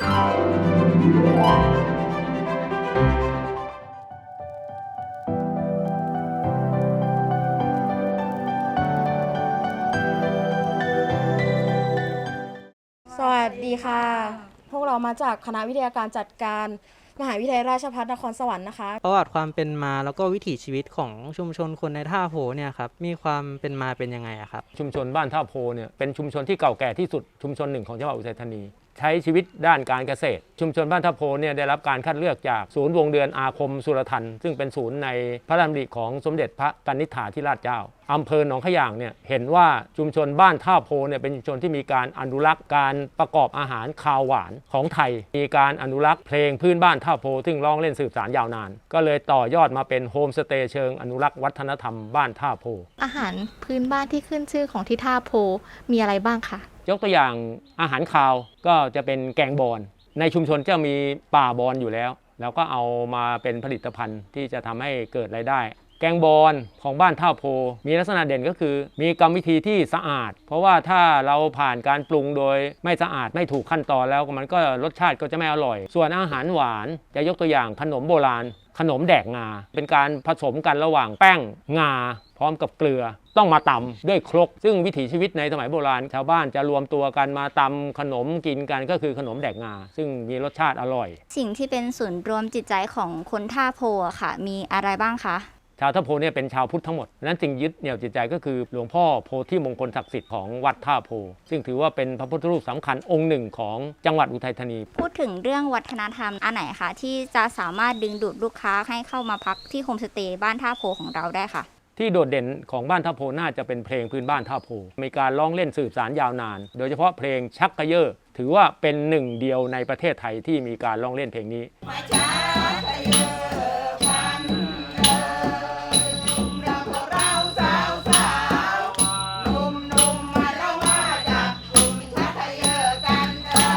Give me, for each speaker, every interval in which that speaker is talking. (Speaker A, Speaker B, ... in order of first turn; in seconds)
Speaker A: 13.1-19.0
Speaker B: 19.0-24.6
Speaker C: 24.7-52.9, 56.9-91.2, 95.8-104.9, 112.0-121.7
Speaker D: 53.0-56.7
Speaker E: 91.3-95.5, 104.9-111.7